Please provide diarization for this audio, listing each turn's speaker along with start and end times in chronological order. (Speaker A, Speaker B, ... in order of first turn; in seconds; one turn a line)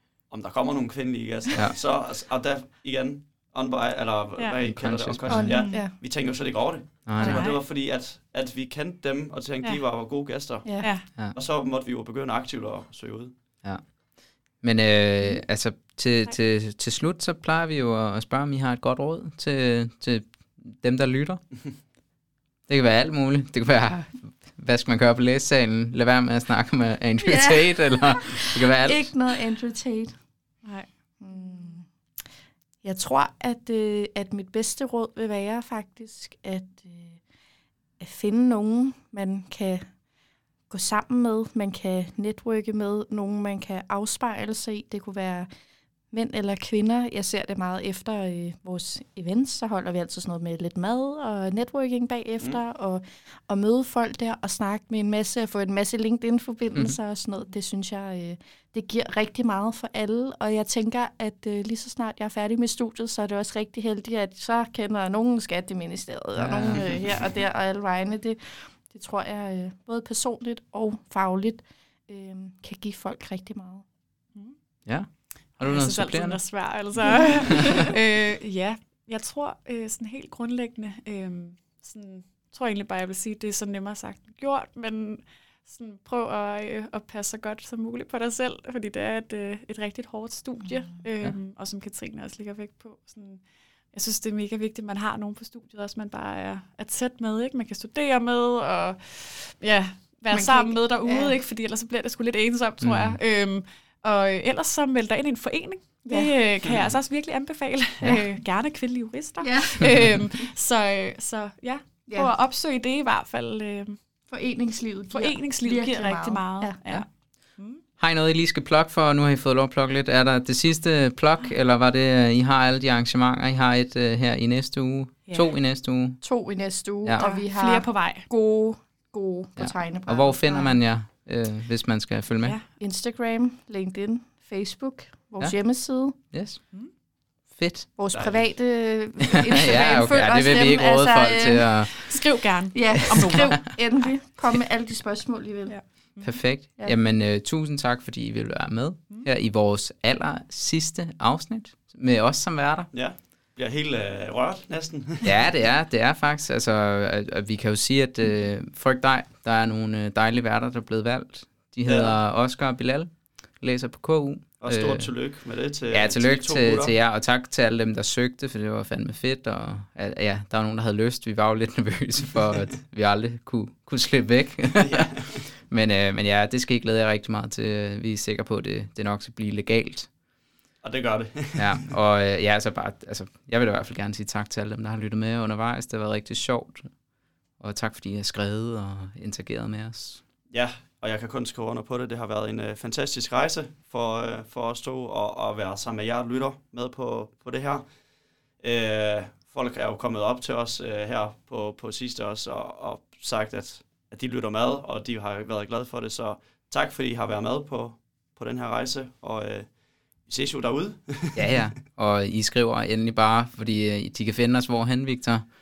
Speaker A: 0.3-13.3
Speaker B: 4.7-5.7
Speaker C: 5.3-6.0
Speaker D: 5.5-5.8
Speaker B: 7.1-7.4
Speaker D: 7.2-7.6
Speaker C: 10.7-10.9
Speaker D: 10.8-11.1
Speaker B: 13.6-21.9
Speaker B: 22.7-29.2
Speaker C: 27.2-30.2
Speaker D: 30.6-30.9
Speaker C: 31.2-31.9
Speaker C: 32.8-37.2
Speaker C: 38.0-39.9
Speaker C: 40.7-45.5
Speaker C: 46.1-73.8
Speaker B: 66.4-66.8
Speaker A: 66.7-67.1
Speaker B: 74.9-76.7
Speaker D: 75.6-114.0
Speaker C: 100.3-101.3
Speaker B: 102.8-103.2
Speaker C: 106.1-106.3
Speaker B: 108.0-108.3
Speaker C: 109.4-110.1
Speaker C: 114.3-116.8
Speaker D: 115.1-117.8
Speaker B: 118.0-126.2
Speaker D: 125.3-125.5
Speaker C: 126.2-130.8
Speaker D: 127.1-128.3
Speaker B: 129.6-132.6
Speaker C: 132.8-136.2
Speaker B: 136.2-136.6
Speaker B: 137.5-137.9
Speaker C: 138.0-142.2
Speaker A: 138.1-138.5
Speaker B: 139.5-142.2
Speaker D: 142.0-144.1
Speaker C: 142.8-145.9
Speaker D: 145.7-146.4
Speaker B: 146.2-152.9
Speaker A: 152.9-155.5
Speaker B: 155.2-165.1
Speaker A: 161.9-162.2
Speaker A: 164.6-166.9
Speaker B: 165.9-180.1
Speaker A: 174.8-175.4
Speaker A: 180.8-181.9
Speaker B: 181.6-187.0
Speaker B: 187.6-190.2
Speaker A: 190.5-197.9
Speaker A: 198.6-211.6
Speaker B: 211.3-215.5